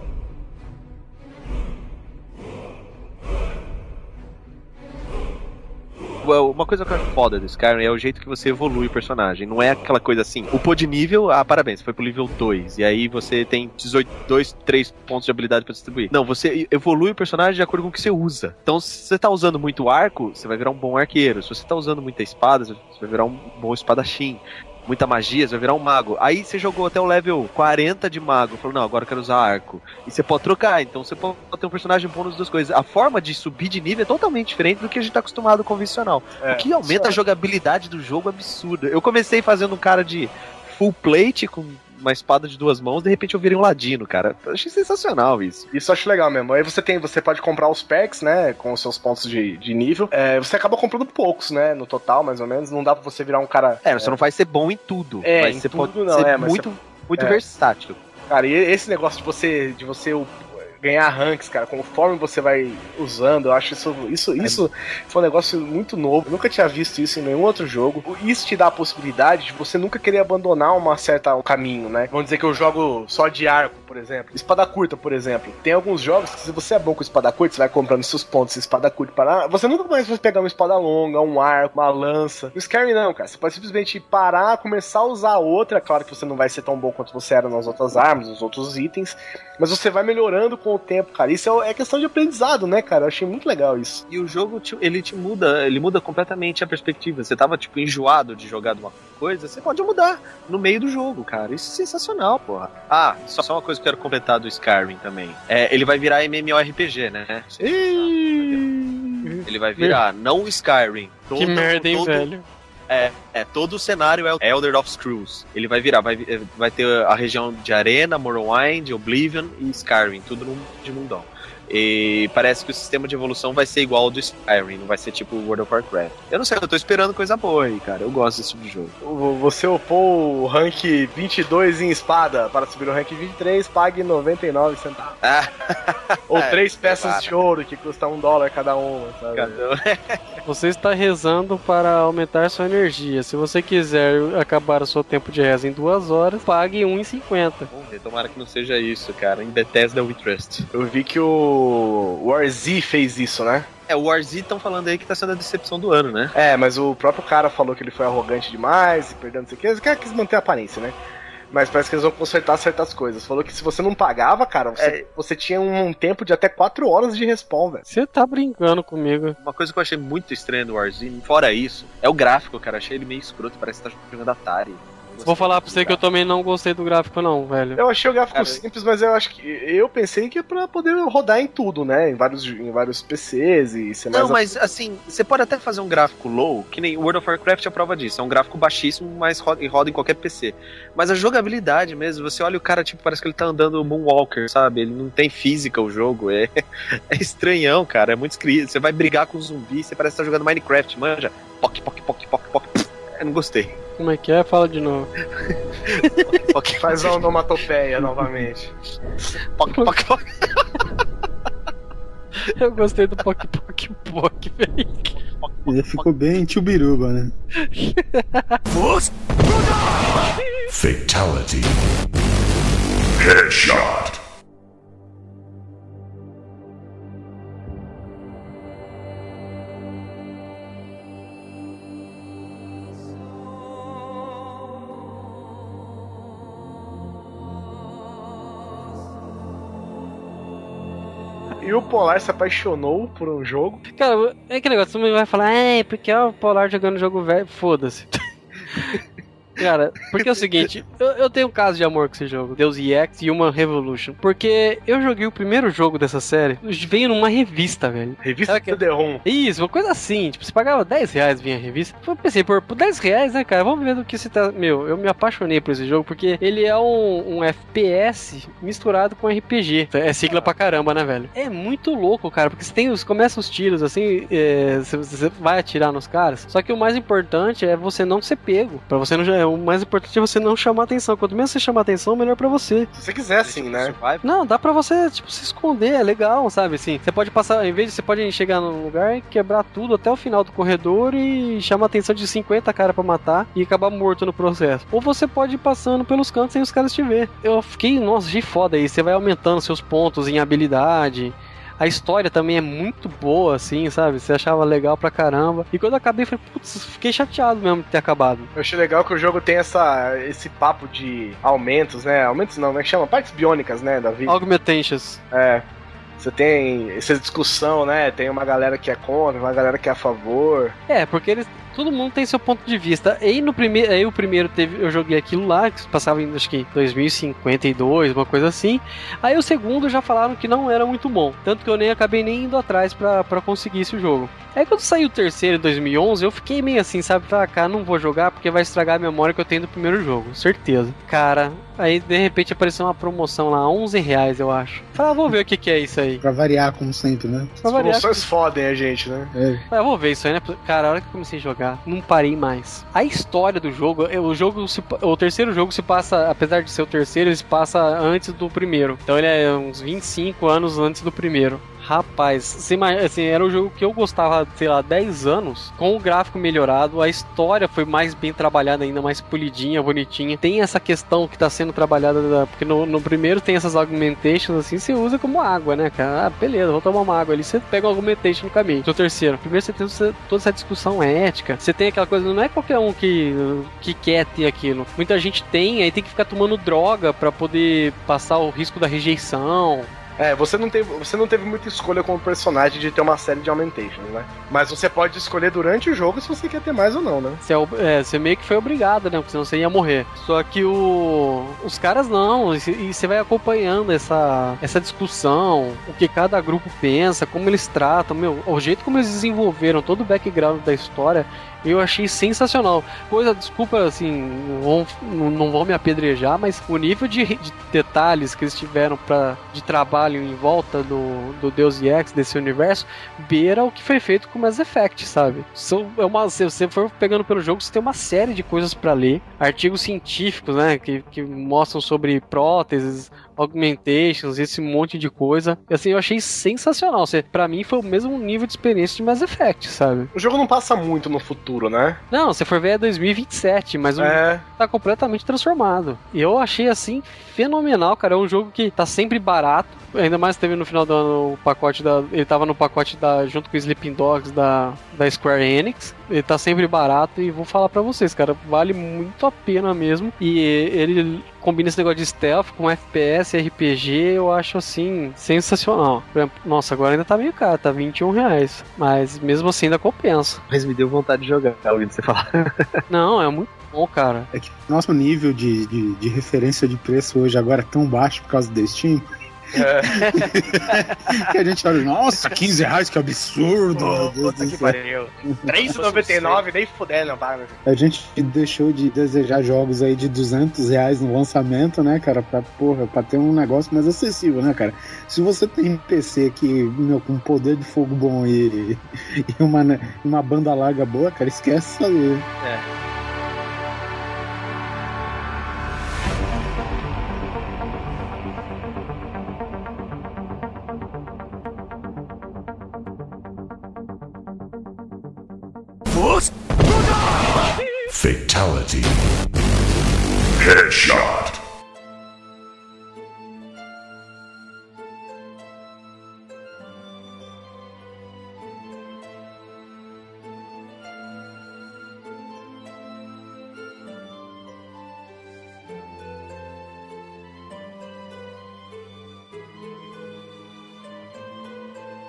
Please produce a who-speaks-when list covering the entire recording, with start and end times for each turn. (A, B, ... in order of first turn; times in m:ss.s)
0:06.2-0:45.7 A
0:36.4-0:37.2 B
0:45.7-0:54.2 B
0:53.8-0:58.0 A
0:55.2-0:57.4 B
0:58.3-1:34.0 B
1:34.1-1:48.6 A
1:47.6-1:49.3 B
1:49.2-1:50.0 C
1:49.5-1:52.3 A
1:51.4-1:52.4 C
1:52.9-2:09.0 A
2:09.0-2:15.2 B
2:15.2-2:17.3 A
2:16.3-2:19.6 B
2:19.4-2:20.2 A
2:20.4-2:27.7 C
2:27.7-2:30.7 A
2:30.7-2:33.7 B
2:33.9-2:36.3 A
2:36.4-2:41.0 B
2:41.5-2:47.9 B
2:44.8-2:45.1 A
2:47.9-2:49.4 C
2:49.4-2:56.0 A
2:55.2-2:57.8 C
2:57.8-3:04.6 B
2:58.3-2:58.6 A
3:04.1-3:16.5 A
3:17.1-3:23.8 A
3:24.0-3:25.1 C
3:25.9-3:27.3 A
3:26.0-3:26.5 C
3:26.8-3:28.7 B
3:29.6-3:30.6 A
3:29.7-3:30.0 C
3:32.5-3:35.2 C
3:35.2-3:36.0 A
3:35.7-3:37.3 D
3:37.6-3:38.6 C
3:38.7-3:44.2 E
4:01.6-4:03.8 B
4:04.0-4:08.2 C
4:08.7-4:09.0 C
4:09.6-4:42.9 C
4:18.2-4:19.2 B
4:42.9-4:44.0 B
4:43.4-4:44.2 A
4:44.2-5:08.5 C
5:08.6-5:14.4 B
5:14.3-5:15.2 C
5:15.3-5:15.6 B
5:16.2-5:20.8 B
5:20.9-5:46.2 C
5:46.2-5:47.6 D
5:47.6-5:48.3 C
5:47.7-5:49.3 B
5:49.3-5:49.6 D
5:49.7-6:29.9 C
6:30.2-6:37.4 B
6:37.4-7:20.1 C
7:20.1-7:22.0 B
7:22.1-7:50.4 C
7:24.0-7:24.4 B
7:50.5-7:52.8 A
7:52.9-7:54.3 C
7:54.3-7:59.1 D
7:59.6-8:00.0 B
7:59.8-8:01.2 A
7:59.8-8:05.6 D
8:03.8-8:06.4 A
8:05.7-8:07.6 B
8:07.7-8:22.3 D
8:22.4-8:22.7 A
8:35.9-8:41.4 E